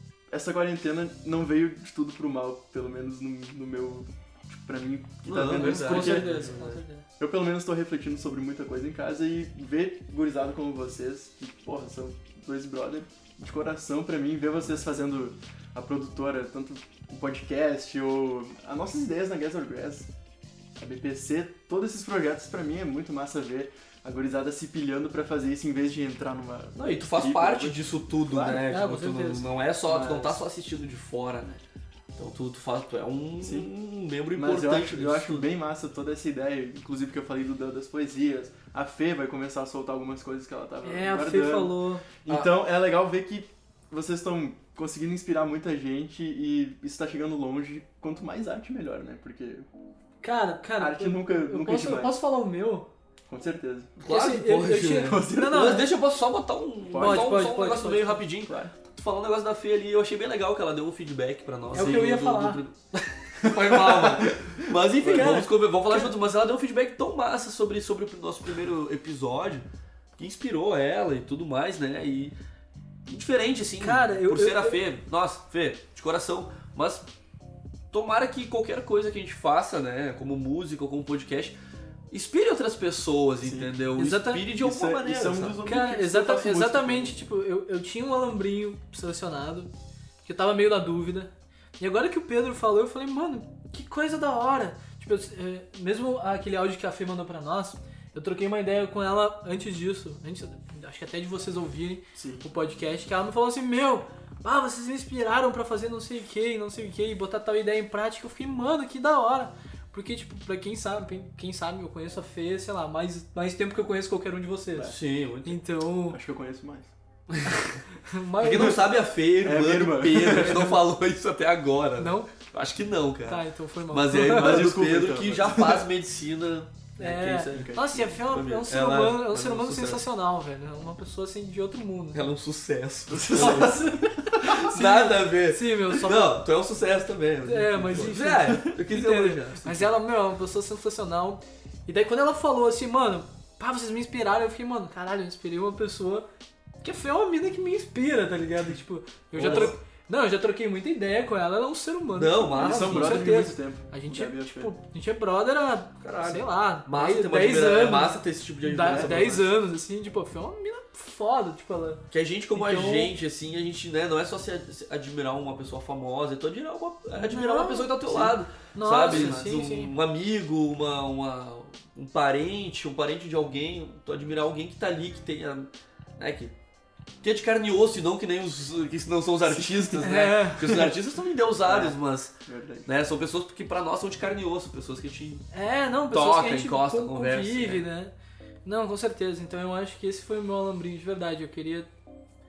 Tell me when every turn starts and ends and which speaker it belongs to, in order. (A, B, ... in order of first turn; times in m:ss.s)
0:00.3-0:06.6 A
0:05.2-0:06.8 B
0:05.5-0:07.0 C
0:07.2-0:20.1 A
0:20.8-0:28.6 A
0:26.8-0:31.6 B
0:28.7-0:29.5 C
0:29.9-0:30.4 A
0:32.2-0:35.5 B
0:33.4-0:33.7 A
0:34.3-0:49.7 A
0:40.8-0:42.1 C
0:42.3-0:42.5 B
0:50.2-0:52.9 C
0:50.8-0:52.2 A
0:53.3-0:53.9 A
0:54.0-1:09.6 B
0:54.1-0:55.9 C
0:55.0-0:55.9 A
0:56.9-0:57.3 A
0:57.0-0:58.2 C
0:58.5-0:58.7 A
1:01.7-1:02.6 C
1:01.8-1:02.1 A
1:03.4-1:05.4 A
1:05.0-1:06.0 C
1:10.2-1:12.4 B
1:13.1-1:17.0 B
1:13.8-1:14.8 C
1:17.9-1:21.6 B
1:22.1-1:25.6 B
1:23.4-1:23.7 A
1:24.0-1:24.5 C
1:24.5-1:27.2 A
1:25.6-1:29.7 C
1:30.2-1:54.9 C
1:42.2-1:42.5 A
1:54.8-1:55.6 B
1:55.4-1:56.2 C
1:56.1-1:56.9 A
1:57.3-1:57.8 B
1:58.0-1:58.8 C
1:58.4-2:10.0 B
1:59.4-2:00.7 A
2:00.2-2:00.8 C
2:02.0-2:02.3 C
2:03.2-2:04.7 C
2:04.2-2:05.9 A
2:07.0-2:12.2 C
2:07.5-2:08.1 A
2:12.1-2:19.9 B
2:13.1-2:14.8 A
2:13.3-2:16.4 C
2:17.4-2:26.3 C
2:26.8-2:43.1 C
2:29.4-2:29.8 B
2:29.4-2:29.8 A
2:32.2-2:33.5 B
2:32.6-2:34.7 A
2:36.0-2:39.5 B
2:38.8-2:39.4 A
2:42.1-2:56.6 B
2:47.2-2:48.2 C
2:48.1-2:48.4 A
2:48.7-2:49.9 C
2:49.1-2:49.4 A
2:57.2-3:02.4 B
3:00.0-3:00.9 C
3:01.6-3:02.9 A
3:02.9-3:05.4 B
3:05.5-3:08.1 C
3:06.1-3:07.9 B
3:08.6-3:11.9 C